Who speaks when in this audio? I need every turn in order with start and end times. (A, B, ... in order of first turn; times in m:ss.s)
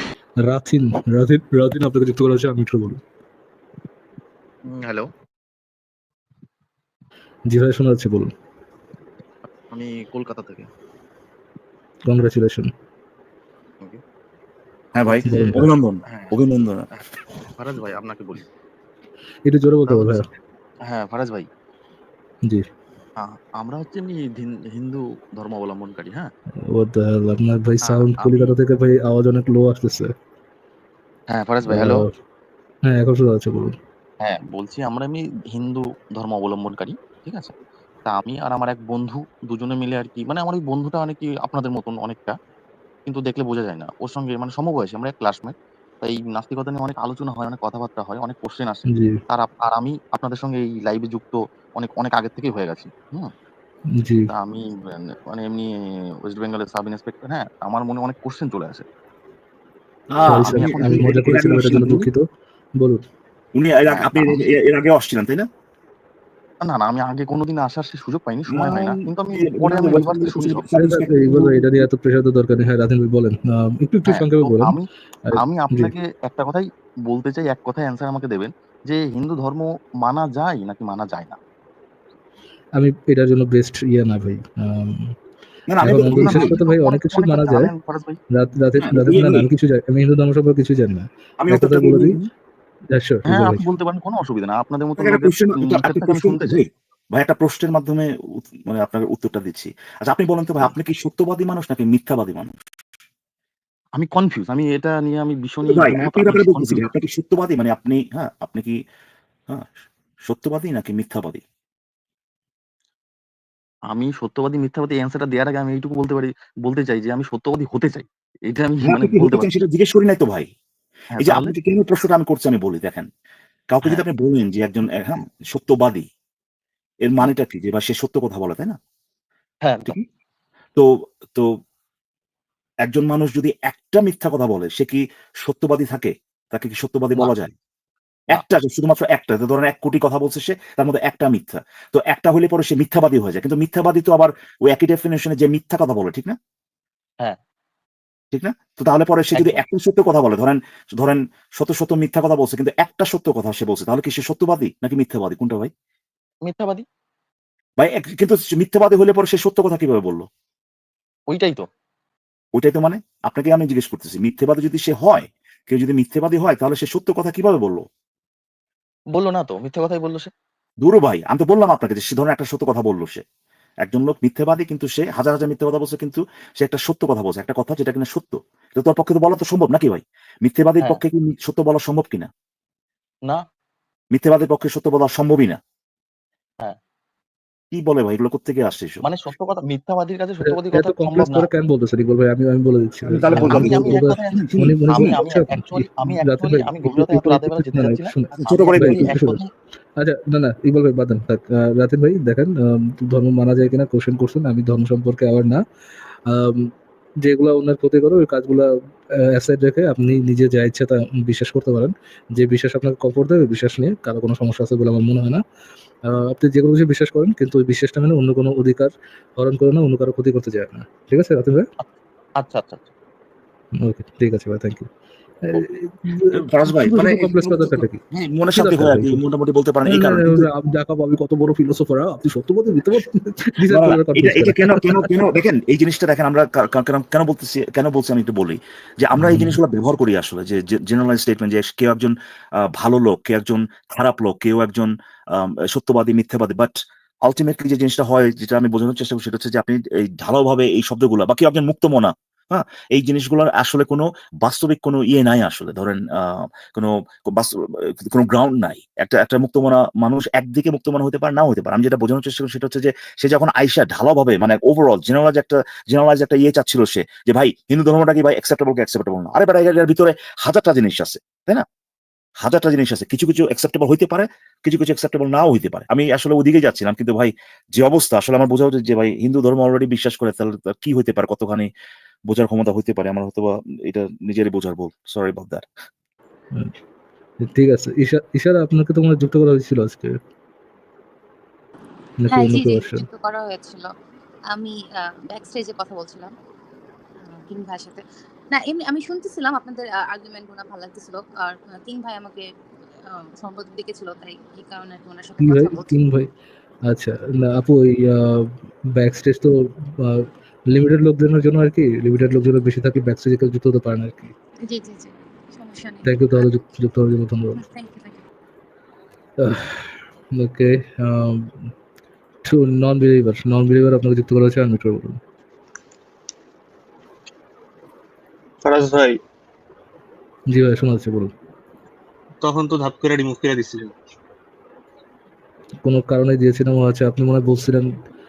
0:00.4-0:03.0 A
0:04.7-0:05.1 B
0:07.5-0:08.3 A
0:09.5-0:10.7 B
0:12.1-0:12.7 A
0:14.9-0:16.8 C
0:15.1-0:15.5 B
0:15.3-0:15.7 A
0:16.1-0:16.3 B
0:17.5-0:18.4 B
0:19.4-0:20.2 A
0:19.9-0:20.3 B
0:20.8-0:21.5 B
0:23.2-0:26.3 B
0:26.7-0:30.1 A
0:27.9-0:28.5 B
0:31.3-0:32.0 B
0:31.7-0:32.1 A
0:32.9-0:33.7 A
0:34.2-0:37.5 B
0:38.0-0:42.4 B
0:43.0-0:53.3 B
0:48.9-0:49.2 A
0:54.0-0:54.3 A
0:54.3-0:55.7 B
0:56.2-0:58.8 B
1:00.1-1:02.1 C
1:00.3-1:01.4 B
1:00.3-1:02.2 A
1:03.5-1:05.5 C
1:03.9-1:04.4 B
1:06.6-1:10.7 B
1:08.5-1:11.6 C
1:10.8-1:14.7 A
1:14.1-1:21.4 B
1:15.3-1:15.9 A
1:22.8-1:25.1 A
1:25.7-1:26.6 C
1:25.8-1:27.7 A
1:25.9-1:28.2 B
1:28.3-1:32.2 A
1:28.8-1:29.5 C
1:31.4-1:32.3 C
1:32.9-1:33.6 A
1:33.3-1:36.6 B
1:35.0-1:42.5 C
1:44.0-1:46.9 B
1:45.6-1:48.8 C
1:50.3-1:51.4 C
1:53.9-1:59.5 B
1:58.8-2:00.5 C
2:01.1-2:01.5 B
2:01.2-2:03.1 C
2:03.7-2:06.1 C
2:07.0-2:08.8 C
2:09.6-2:10.0 B
2:10.8-2:11.5 C
2:12.8-2:17.5 C
2:18.3-2:26.4 C
2:28.3-2:35.7 C
2:29.3-2:29.6 B
2:36.4-2:36.8 B
2:37.8-2:40.3 C
2:41.3-2:41.7 B
2:42.6-2:47.8 C
2:49.1-2:50.3 B
2:50.8-2:53.2 C
2:53.8-3:02.3 C
3:04.1-3:05.6 C
3:07.7-3:09.0 C
3:09.0-3:11.5 B
3:10.4-3:19.4 A
3:13.0-3:15.2 C
3:13.4-3:19.5 B
3:18.4-3:19.1 C
3:20.0-3:25.6 A
3:26.3-3:26.7 A
3:27.2-3:28.7 A
3:29.3-3:35.4 A
3:36.1-3:41.6 A
3:42.4-3:42.9 B
3:43.8-3:44.9 A
3:45.4-3:48.0 A
3:46.3-3:50.5 C
3:48.5-3:49.2 A
3:49.8-3:55.1 A
3:53.7-4:02.1 C
3:59.2-3:59.6 A
4:02.7-4:31.6 C
4:32.4-4:41.7 C
4:42.3-4:45.7 C
4:47.4-4:50.1 A
4:52.2-4:53.0 A
4:52.3-4:53.9 D
4:54.5-4:56.3 D
4:57.2-5:02.4 D
5:03.0-5:06.0 D
5:05.4-5:06.3 A
5:06.9-5:14.3 A
5:14.6-5:16.5 D
5:16.0-5:17.6 A
5:17.6-5:18.2 D
5:19.4-5:21.5 A
5:22.4-5:25.2 A
5:28.6-5:29.2 E
5:30.5-5:31.3 A
5:32.4-5:33.9 E
5:35.8-5:37.9 A